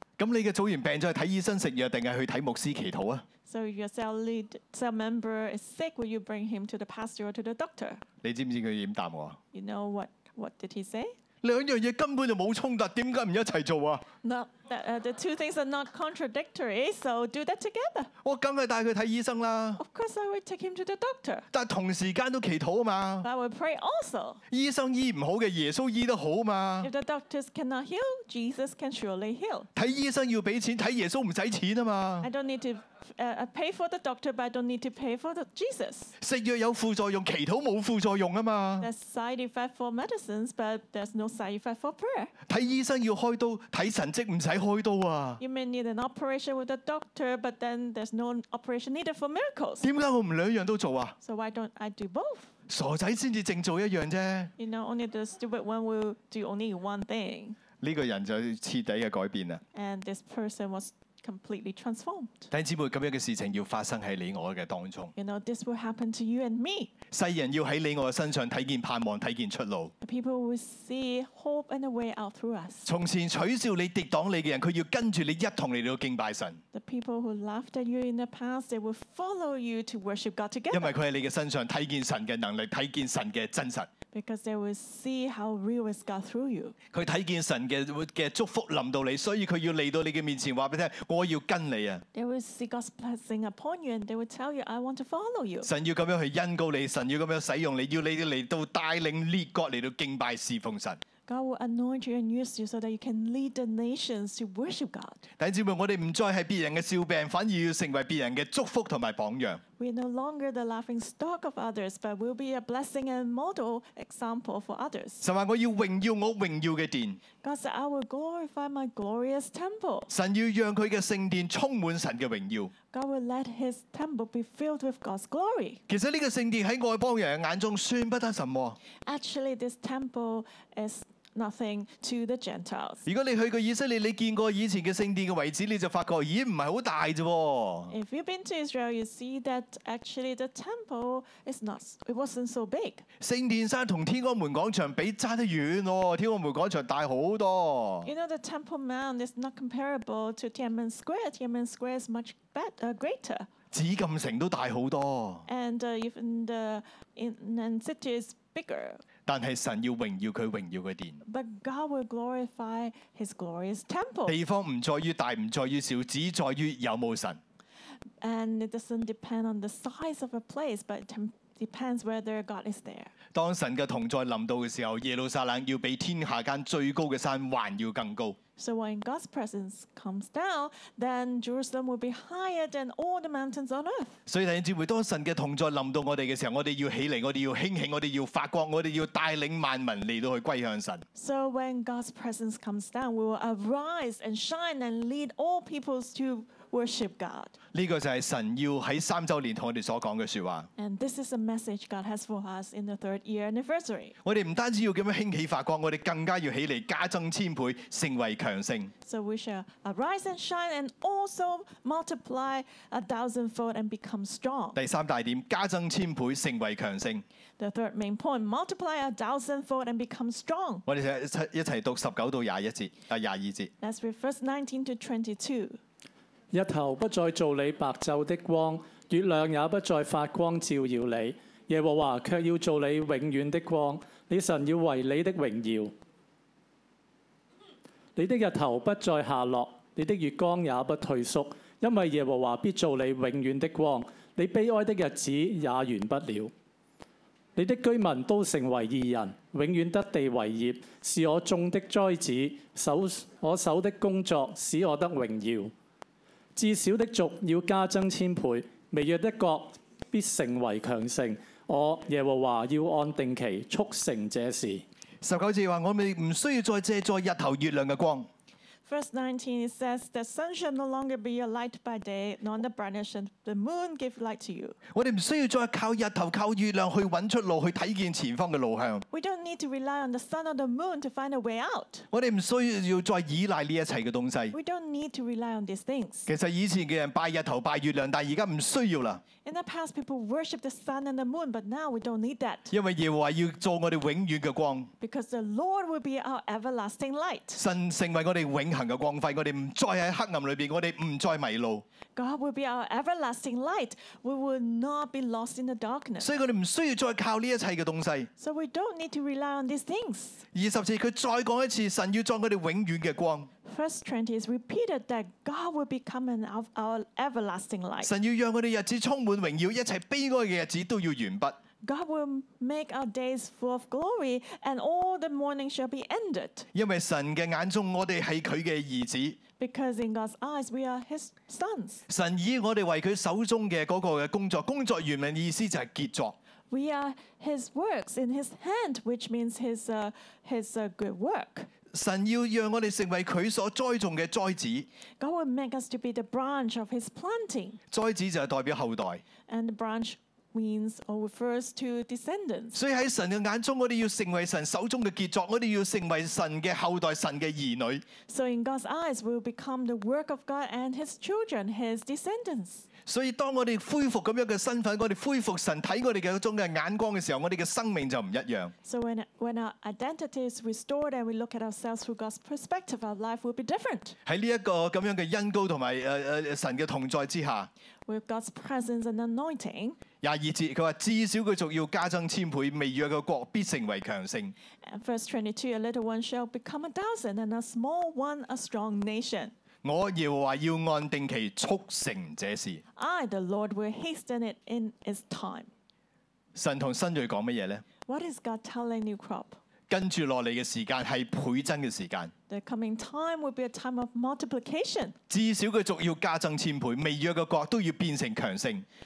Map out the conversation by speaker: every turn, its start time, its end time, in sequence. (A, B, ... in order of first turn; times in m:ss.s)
0:00.2-0:03.2 A
0:03.5-0:08.0 B
0:08.2-0:09.4 A
0:09.5-0:11.2 B
0:11.4-0:14.0 A
0:14.2-0:18.1 B
0:18.2-0:19.8 A
0:19.8-0:21.5 B
0:21.5-0:23.3 A
0:23.2-0:24.4 B
0:24.5-0:26.9 A
0:26.8-0:29.7 B
0:29.8-0:32.3 A
0:32.2-0:36.1 B
0:36.2-0:38.9 A
0:38.8-0:42.3 B
0:42.5-0:45.4 A
0:45.4-0:49.9 B
0:49.8-0:51.2 A
0:51.2-0:52.5 B
0:52.7-0:54.5 A
0:54.6-0:57.6 B
0:57.8-0:59.6 A
0:59.7-1:02.5 B
1:02.5-1:05.1 A
1:05.2-1:06.9 B
1:07.1-1:09.9 A
1:10.0-1:12.9 B
1:12.8-1:16.6 A
1:16.7-1:20.9 B
1:20.7-1:23.9 A
1:24.1-1:26.8 B
1:26.9-1:32.0 A
1:32.1-1:35.7 B
1:35.6-1:41.0 A
1:41.3-1:45.2 B
1:45.4-1:49.6 A
1:49.8-1:55.2 B
1:55.2-1:57.2 A
1:57.4-2:00.1 B
2:00.1-2:02.7 A
2:02.9-2:05.8 B
2:05.9-2:08.8 A
2:09.1-2:13.0 B
2:13.0-2:17.9 A
2:17.9-2:23.0 B
2:23.2-2:28.1 A
2:28.0-2:33.5 B
2:33.7-2:35.5 A
2:35.5-2:39.0 B
2:39.3-2:41.2 A
2:41.2-2:44.4 B
2:44.3-2:47.4 A
2:48.2-2:53.1 B
2:53.3-2:58.4 A
2:58.6-3:04.2 B
3:04.3-3:11.0 A
3:11.2-3:17.5 B
3:17.7-3:20.7 A
3:20.8-3:24.2 B
3:24.2-3:28.9 A
3:29.0-3:34.8 B
3:34.8-3:37.2 A
3:37.6-3:40.8 B
3:40.9-3:43.7 A
3:43.8-3:45.8 B
3:46.5-3:55.9 C
3:58.2-4:06.5 C
4:07.6-4:15.7 C
4:16.6-4:24.8 C
4:25.2-4:28.3 A
4:28.9-4:34.8 B
4:34.9-4:39.0 A
4:39.1-4:42.1 B
4:42.1-4:44.6 A
4:44.5-4:46.3 B
4:46.3-4:49.2 A
4:49.4-4:52.7 B
4:52.7-4:54.9 A
4:55.0-4:57.6 B
4:57.6-5:01.8 A
5:02.2-5:06.3 B
5:06.2-5:08.3 A
5:08.4-5:10.4 B
5:10.5-5:13.5 A
5:13.6-5:18.1 B
5:18.0-5:21.6 A
5:21.8-5:26.7 B
5:26.7-5:29.4 A
5:29.6-5:32.0 B
5:32.1-5:36.4 A
5:36.7-5:41.7 B
5:41.9-5:44.9 A
5:45.2-5:47.8 B
5:47.9-5:49.2 A
5:49.5-5:52.8 B
5:52.7-5:58.0 A
5:58.3-6:02.9 B
6:03.1-6:08.7 A
6:08.8-6:14.2 B
6:14.2-6:17.7 A
6:18.1-6:20.0 B
6:20.2-6:24.6 A
6:24.8-6:29.5 B
6:29.8-6:32.8 A
6:33.0-6:35.7 B
6:36.6-6:37.8 A
6:38.1-6:39.6 B
6:39.9-6:42.3 A
6:42.5-6:45.2 B
6:45.3-6:48.8 A